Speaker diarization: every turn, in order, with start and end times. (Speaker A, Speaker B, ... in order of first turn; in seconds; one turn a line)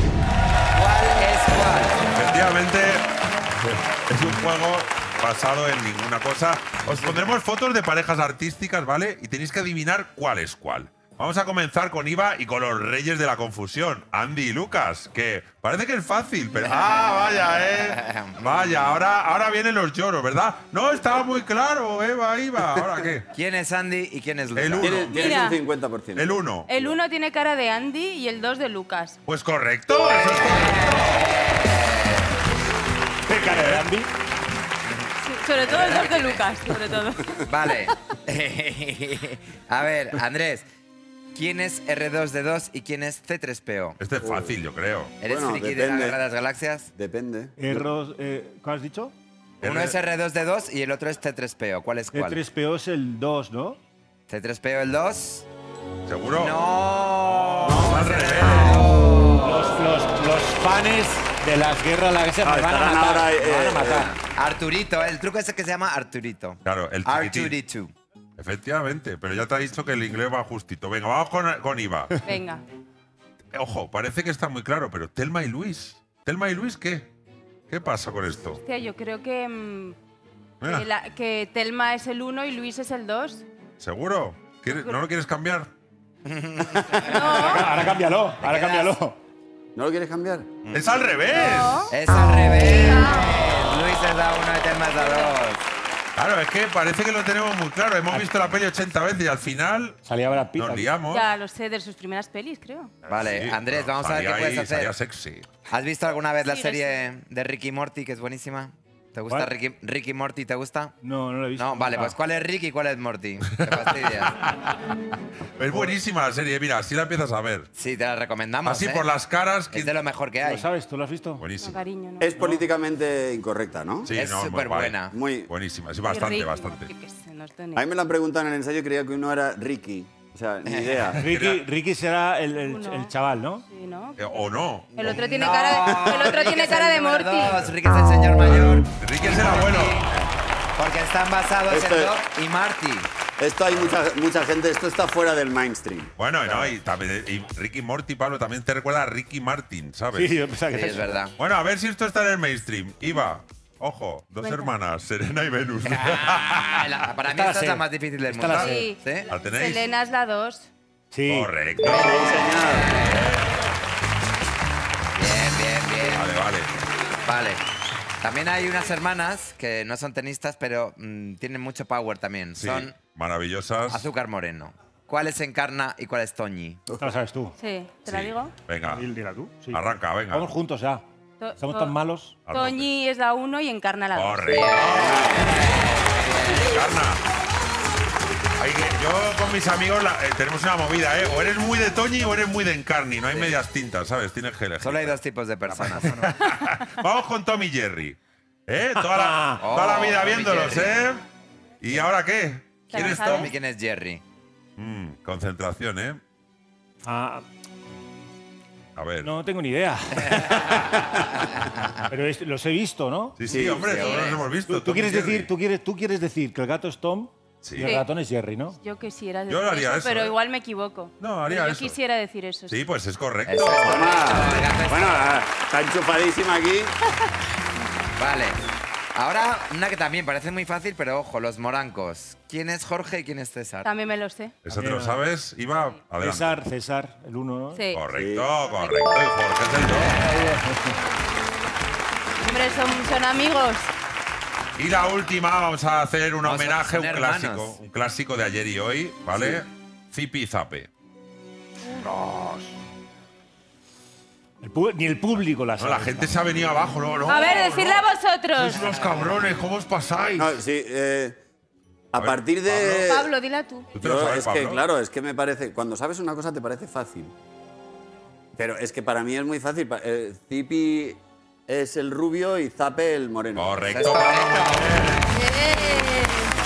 Speaker A: 0.7-2.1
Speaker B: 2.1-3.0
Speaker B: 4.1-23.3
Speaker A: 16.6-17.0
Speaker A: 17.8-18.7
Speaker A: 23.3-25.2
Speaker B: 24.5-25.5
Speaker C: 24.8-26.9
Speaker D: 25.2-25.6
Speaker B: 26.2-26.7
Speaker D: 26.7-29.2
Speaker B: 29.3-31.2
Speaker A: 30.4-32.3
Speaker E: 33.3-34.1
Speaker B: 33.5-33.9
Speaker A: 34.9-36.6
Speaker D: 35.2-37.4
Speaker A: 37.4-40.7
Speaker A: 41.4-44.0
Speaker B: 44.0-45.2
Speaker C: 44.2-44.6
Speaker A: 45.2-46.9
Speaker C: 45.2-46.2
Speaker C: 47.0-47.8
Speaker E: 47.6-49.1
Speaker B: 49.6-50.0
Speaker A: 49.6-52.4
Speaker E: 52.1-53.8
Speaker A: 54.3-55.5
Speaker B: 56.1-56.6
Speaker A: 56.4-59.7
Speaker B: 57.6-59.0
Speaker E: 59.3-63.6
Speaker C: 62.4-64.1
Speaker A: 63.5-67.9
Speaker B: 66.7-67.6
Speaker B: 68.4-72.2
Speaker D: 72.3-72.6
Speaker B: 73.5-77.1
Speaker B: 77.7-78.6
Speaker D: 78.6-80.0
Speaker B: 80.6-80.9
Speaker D: 80.7-83.5
Speaker B: 83.8-85.7
Speaker D: 84.7-85.0
Speaker A: 86.3-87.4
Speaker D: 87.1-87.8
Speaker E: 87.2-89.2
Speaker A: 88.4-89.0
Speaker C: 89.8-90.5
Speaker A: 90.6-90.9
Speaker B: 90.7-92.0
Speaker D: 91.3-93.4
Speaker A: 91.9-95.7
Speaker D: 94.9-95.4
Speaker B: 96.2-100.0
Speaker E: 98.1-98.5
Speaker E: 100.0-100.9
Speaker B: 100.5-101.3
Speaker D: 101.1-102.9
Speaker B: 103.1-105.5
Speaker A: 103.1-105.0
Speaker A: 105.7-110.9
Speaker D: 106.4-107.1
Speaker E: 111.0-112.2
Speaker A: 111.5-114.4
Speaker B: 113.7-114.7
Speaker B: 115.6-117.7
Speaker E: 115.7-116.0
Speaker A: 117.8-119.1
Speaker B: 118.6-120.0
Speaker A: 119.7-120.7
Speaker E: 120.4-121.5
Speaker B: 121.4-121.8
Speaker D: 121.6-122.3
Speaker C: 122.2-124.1
Speaker E: 122.4-122.7
Speaker B: 124.0-126.9
Speaker A: 124.1-125.2
Speaker C: 125.1-125.5
Speaker D: 126.0-127.8
Speaker C: 127.8-131.2
Speaker A: 130.7-131.2
Speaker E: 131.2-133.6
Speaker B: 131.2-131.6
Speaker D: 132.6-134.3
Speaker B: 134.2-135.4
Speaker D: 134.9-137.6
Speaker A: 135.0-140.1
Speaker B: 138.7-140.1
Speaker A: 140.8-143.1
Speaker C: 141.7-142.2
Speaker C: 143.4-146.6
Speaker B: 146.2-150.4
Speaker E: 150.1-151.2
Speaker A: 150.7-151.3
Speaker B: 151.4-157.1
Speaker D: 154.4-154.7
Speaker A: 155.8-159.3
Speaker E: 157.2-158.9
Speaker B: 158.5-158.7
Speaker D: 158.6-160.7
Speaker B: 159.3-159.9
Speaker E: 161.1-161.5
Speaker B: 161.3-163.4
Speaker C: 161.8-162.9
Speaker A: 162.7-163.3
Speaker A: 165.2-166.5
Speaker B: 166.1-166.7
Speaker A: 167.2-167.6
Speaker A: 168.2-173.0
Speaker B: 172.6-174.1
Speaker A: 173.9-176.8
Speaker E: 177.0-177.6
Speaker D: 177.6-178.6
Speaker B: 178.0-179.1
Speaker E: 178.9-181.1
Speaker B: 179.7-180.5
Speaker D: 181.4-181.9
Speaker E: 181.6-182.4
Speaker B: 182.5-182.9
Speaker D: 182.5-184.7
Speaker B: 184.1-185.7
Speaker A: 184.5-186.8
Speaker B: 186.5-187.2
Speaker B: 188.6-201.2
Speaker A: 193.3-193.6
Speaker A: 194.8-196.2
Speaker E: 198.9-200.0
Speaker A: 199.5-201.1
Speaker B: 201.8-203.5
Speaker D: 202.9-203.5
Speaker A: 202.9-204.2
Speaker B: 204.8-206.2
Speaker E: 207.0-207.4
Speaker B: 209.0-209.3
Speaker E: 209.2-211.3
Speaker E: 212.1-213.4
Speaker B: 213.4-215.5
Speaker C: 213.4-214.2
Speaker A: 213.8-214.5
Speaker E: 214.6-218.8
Speaker B: 217.6-217.9
Speaker D: 218.7-222.8
Speaker B: 219.5-220.4
Speaker B: 221.2-222.0
Speaker B: 222.7-224.2
Speaker A: 223.4-225.3
Speaker C: 223.8-226.9
Speaker A: 228.2-228.6
Speaker A: 229.2-234.0
Speaker D: 233.8-234.6
Speaker B: 234.7-236.6
Speaker E: 234.7-235.3
Speaker E: 236.2-237.9
Speaker D: 237.7-238.1
Speaker B: 237.9-240.3
Speaker C: 238.1-238.5
Speaker D: 238.7-239.3
Speaker E: 240.2-240.9
Speaker D: 242.4-243.9
Speaker B: 244.8-250.9
Speaker A: 246.4-247.8
Speaker B: 252.0-252.7
Speaker E: 254.6-256.4
Speaker B: 255.8-258.0
Speaker D: 257.2-258.8
Speaker B: 258.6-260.6
Speaker A: 258.8-259.2
Speaker C: 260.4-261.4
Speaker C: 262.1-263.3
Speaker B: 262.1-263.2
Speaker D: 263.1-263.9
Speaker B: 263.9-264.8
Speaker C: 264.0-267.3
Speaker C: 268.6-273.8
Speaker B: 273.6-275.3
Speaker A: 273.9-275.2
Speaker D: 275.3-276.6